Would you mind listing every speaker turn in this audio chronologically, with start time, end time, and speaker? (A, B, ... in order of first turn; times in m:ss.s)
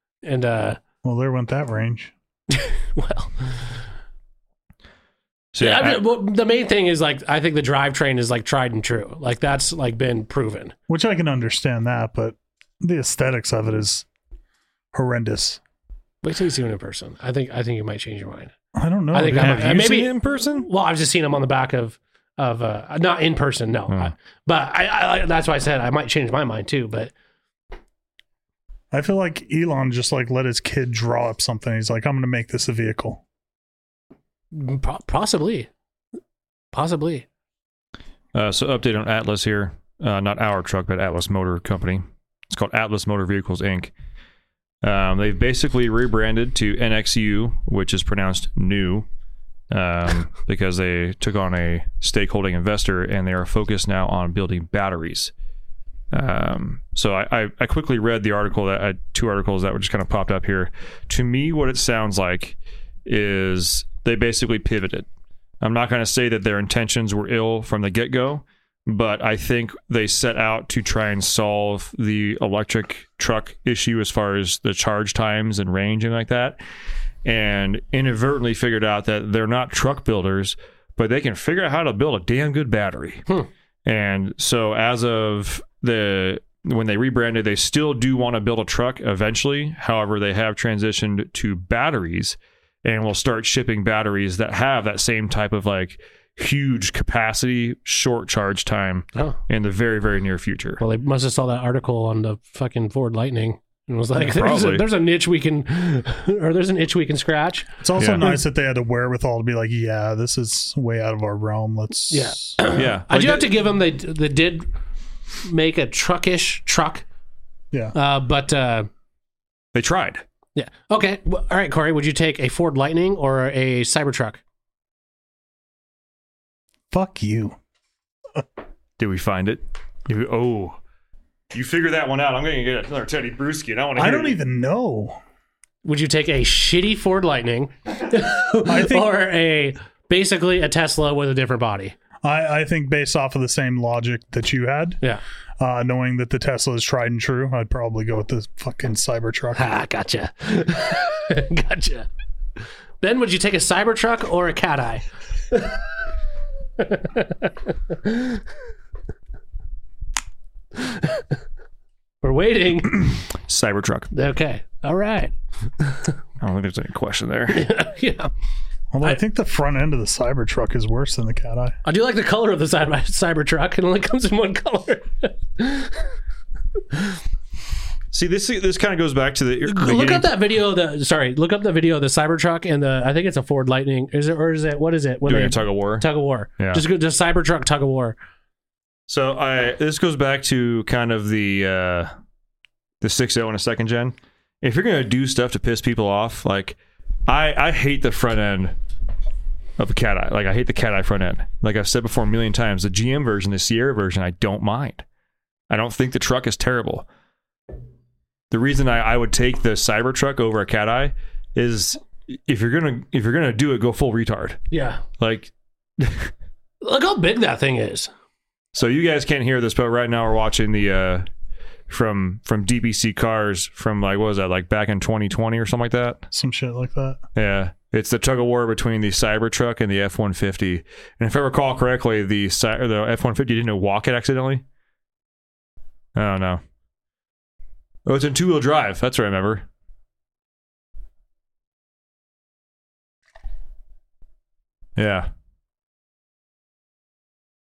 0:00.2-0:00.8 A
0:01.0-0:02.1 B
0:02.5-0:03.7 A
0:05.5-0:06.0 C
0:05.6-0:10.7 A
0:10.9-0:14.0 B
0:14.9-0:15.6 B
0:16.2-0:18.5 A
0:18.8-0:19.9 B
0:19.1-0:27.1 A
0:19.3-0:20.7 C
0:28.9-0:33.2 B
0:34.5-0:35.7 A
0:36.7-0:37.2 A
0:38.3-0:43.9 C
0:44.8-0:49.1 C
0:49.7-0:55.3 C
0:56.1-1:05.1 C
1:05.6-1:16.6 C
1:17.2-1:23.2 C
1:23.9-1:40.8 C
1:40.8-1:48.3 A
1:44.2-1:44.9 C
1:47.8-1:52.6 B
1:48.0-1:48.4 C
1:52.1-1:54.7 A
1:52.7-1:53.5 C
1:55.4-1:57.0 A
1:57.9-1:58.9 A
1:59.7-2:00.2 C
2:00.6-2:04.4 A
2:06.9-2:07.6 B
2:09.0-2:10.8 C
2:11.5-2:14.4 C
2:14.0-2:15.2 B
2:15.8-2:22.0 A
2:18.6-2:19.1 B
2:22.2-2:25.0 B
2:25.6-2:29.6 B
2:29.6-2:32.1 A
2:33.0-2:35.8 A
2:36.8-2:38.4 A
2:40.8-2:41.2 A
2:42.2-2:43.1 A
2:43.3-2:44.1 C
2:44.1-2:46.0 A
2:46.4-2:47.7 C
2:47.5-2:48.3 A
2:48.9-2:51.8 B
2:51.8-2:56.0 A
2:56.9-2:57.2 A
2:58.1-3:00.3 C
2:59.6-3:08.2 A
3:05.2-3:06.1 C
3:06.6-3:06.8 C
3:09.1-3:12.1 C
3:13.0-3:16.8 C
3:17.3-3:18.7 C
3:19.8-3:25.0 C
3:25.7-3:27.1 C
3:28.5-3:34.6 C
3:34.7-3:35.0 A
3:35.2-3:36.3 C
3:36.8-3:38.1 A
3:38.7-3:41.2 C
3:41.9-3:46.2 C
3:46.3-3:47.2 B
3:47.4-3:54.6 C
3:56.1-3:56.6 C
3:58.0-3:59.6 C
4:05.0-4:05.3 C